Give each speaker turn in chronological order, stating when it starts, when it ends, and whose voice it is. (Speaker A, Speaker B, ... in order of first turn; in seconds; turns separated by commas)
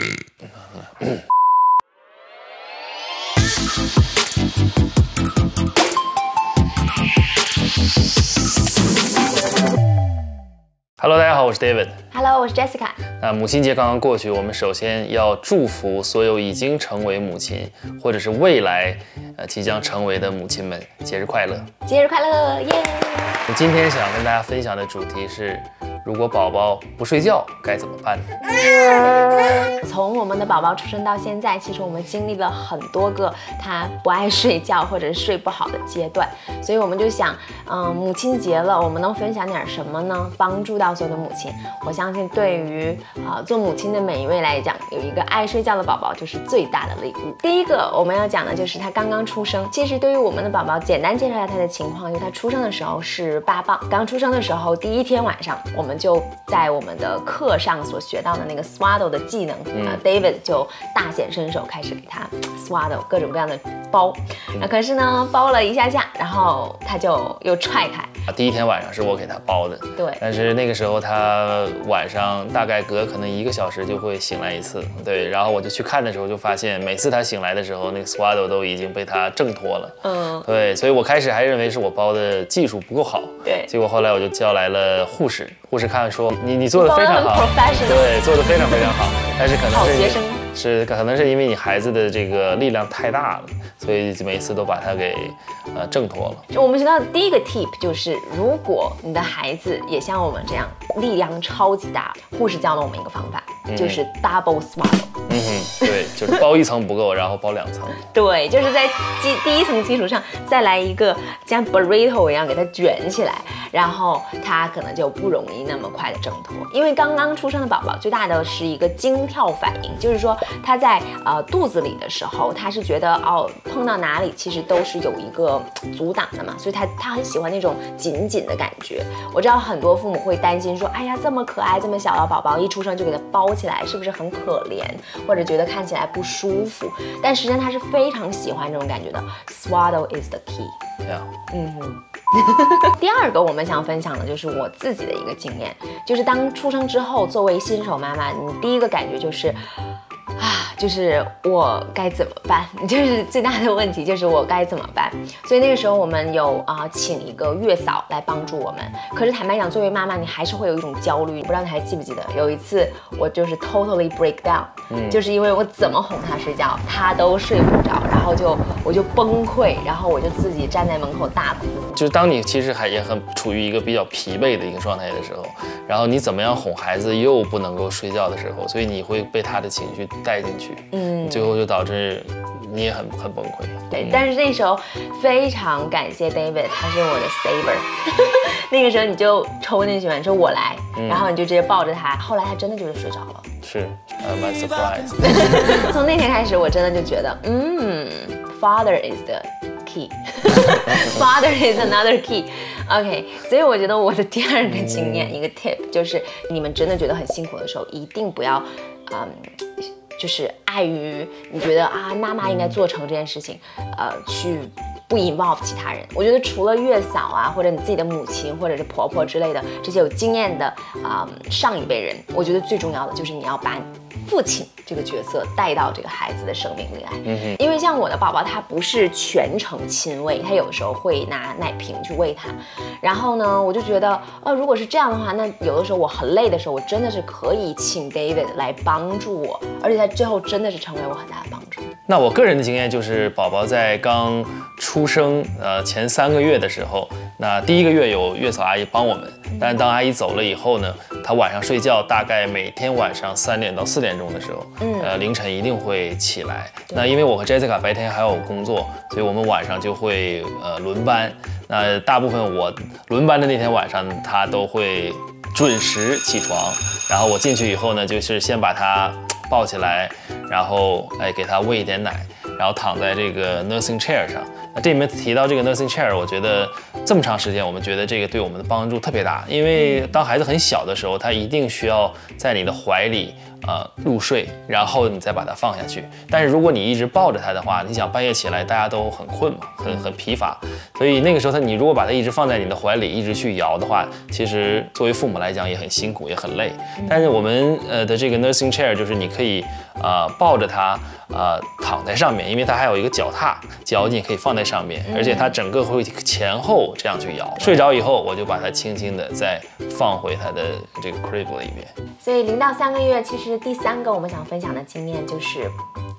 Speaker A: 0.4-1.2, Speaker A: 11.0-12.0, Speaker B: 12.1-13.0, Speaker A: 13.2-21.7, Speaker B: 21.9-23.4, Speaker A: 23.5-28.4, Speaker B: 29.8-68.2, Speaker A: 59.7-60.0, Speaker A: 68.3-96.5, Speaker B: 70.0-70.2, Speaker B: 80.0-80.5, Speaker B: 83.4-83.7, Speaker B: 86.8-88.5, Speaker B: 89.7-90.4, Speaker B: 96.5-105.2, Speaker A: 103.7-104.0, Speaker A: 105.3-108.1, Speaker B: 108.0-140.8, Speaker A: 141.0-141.3, Speaker B: 141.5-149.6, Speaker B: 150.4-172.0, Speaker A: 164.9-165.2, Speaker A: 171.9-184.2, Speaker B: 180.9-181.6, Speaker B: 183.9-193.5, Speaker A: 191.0-191.3, Speaker A: 193.6-195.8, Speaker B: 195.2-241.9, Speaker A: 227.3-227.6, Speaker A: 242.1-311.9, Speaker B: 254.8-255.2, Speaker B: 297.0-297.4, Speaker B: 305.1-305.6, Speaker B: 312.2-315.8